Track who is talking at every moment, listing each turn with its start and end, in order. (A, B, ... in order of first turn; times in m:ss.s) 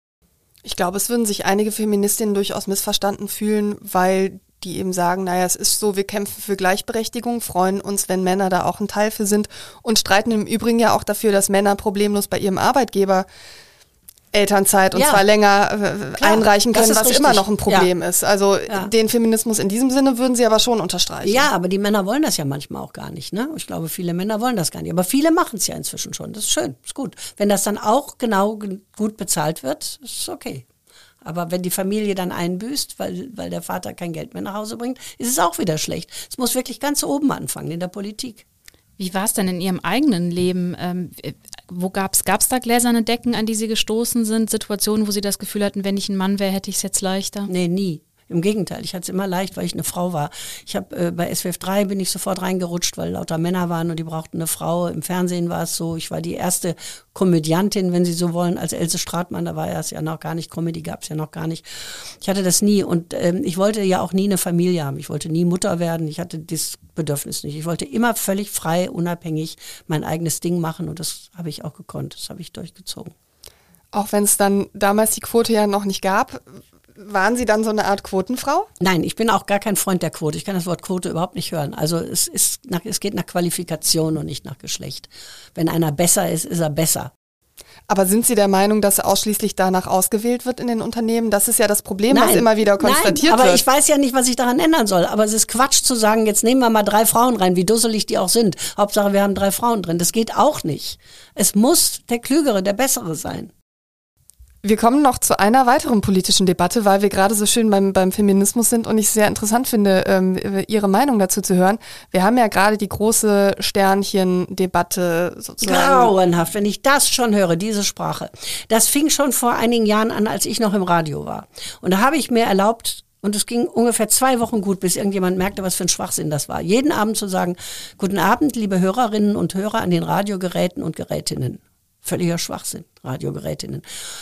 0:00.6-0:13.2 A
0:14.3-0:21.4 A
0:14.9-0:15.2 B
0:16.2-0:17.9 B
0:21.2-0:30.6 B
0:31.2-0:38.4 B
0:39.0-0:47.5 C
0:47.5-1:13.1 B
1:13.9-1:18.7 A
1:18.8-1:27.1 B
1:27.9-1:33.6 A
1:32.1-1:43.5 B
1:44.6-1:56.1 A
1:55.6-2:13.8 B